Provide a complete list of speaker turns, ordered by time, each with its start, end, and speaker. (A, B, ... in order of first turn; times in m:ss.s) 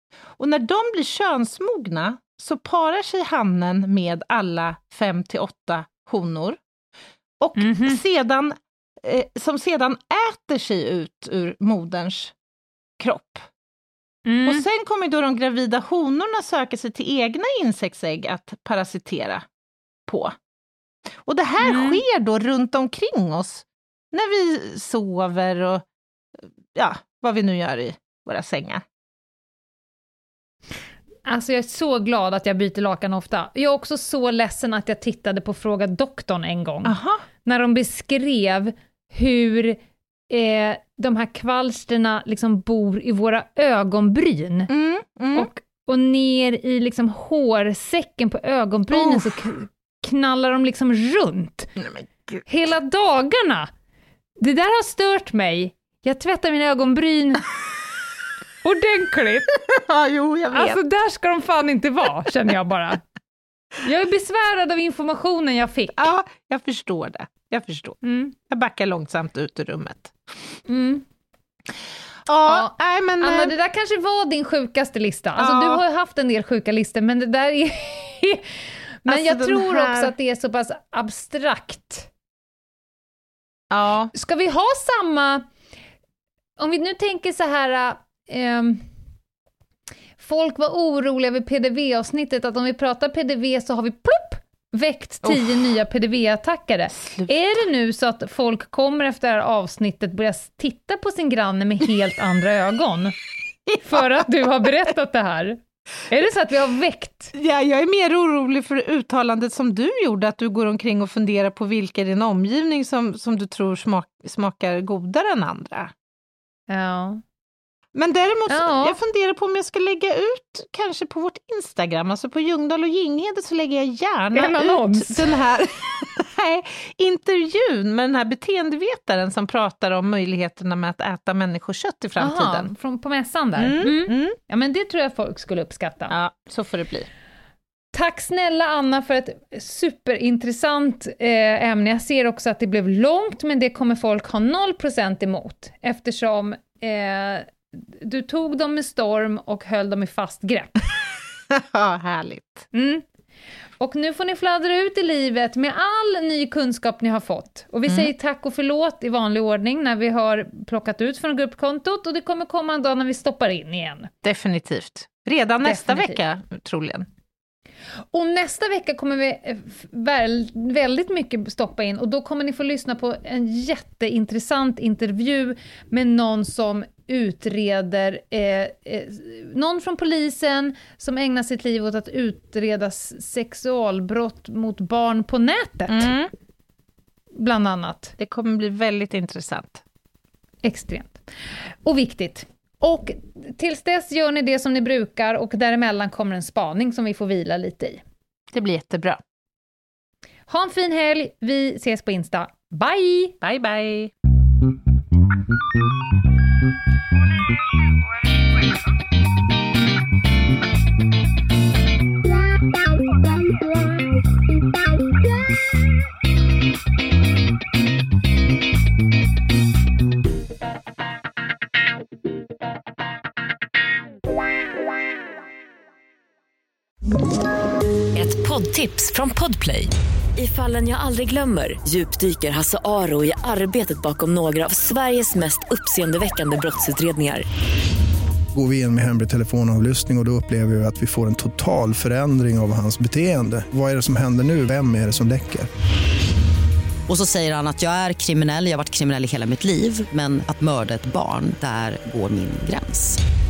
0:00.4-0:06.6 A
0:07.4-0:12.3 A
0:07.6-0:08.0 B
0:13.0-0:13.5 A
0:14.2-0:14.6 B
0:14.4-0:19.4 A
0:20.1-0:20.4 A
0:21.2-0:25.8 A
0:21.6-0:22.0 B
0:26.7-0:28.8 A
0:31.2-0:39.8 B
0:36.8-0:37.2 A
0:40.3-0:44.7 B
0:44.7-0:45.5 A
0:45.3-0:51.7 B
0:48.9-0:49.3 A
0:51.8-0:52.4 A
0:52.4-0:53.7 B
0:54.4-0:57.4 B
0:58.6-0:59.5 B
0:59.6-1:00.8 A
1:00.5-1:03.0 B
1:03.8-1:06.1 B
1:05.9-1:10.4 A
1:08.0-1:08.3 B
1:10.6-1:11.0 B
1:12.2-1:13.6 A
1:12.5-1:18.5 B
1:15.4-1:15.8 A
1:19.0-1:22.1 B
1:19.0-1:20.1 A
1:23.7-1:24.1 A
1:24.1-1:25.4 B
1:26.6-1:28.9 B
1:30.2-1:43.2 B
1:35.2-1:35.7 A
1:36.9-1:37.4 A
1:43.7-1:44.3 A
1:43.8-1:47.3 B
1:47.3-1:55.9 A
1:56.7-1:57.2 B
1:57.9-2:12.7 A
1:58.5-1:59.0 B
2:04.3-2:05.3 B
2:12.2-2:16.1 B
2:13.6-2:14.4 A
2:16.1-2:17.1 A
2:17.9-2:30.8 B
2:31.5-2:32.7 A
2:32.7-2:33.0 B
2:33.8-2:44.1 B
2:44.2-2:47.1 A
2:45.6-2:46.2 B
2:48.1-3:06.1 B
3:05.9-3:06.3 A
3:07.4-3:08.1 B
3:08.2-3:09.8 A
3:10.6-3:11.2 B
3:11.8-3:18.0 B
3:18.5-3:19.2 A
3:20.5-3:23.3 B
3:23.4-3:24.1 A
3:48.1-3:57.4 C
3:58.5-4:05.7 D
4:07.1-4:13.2 E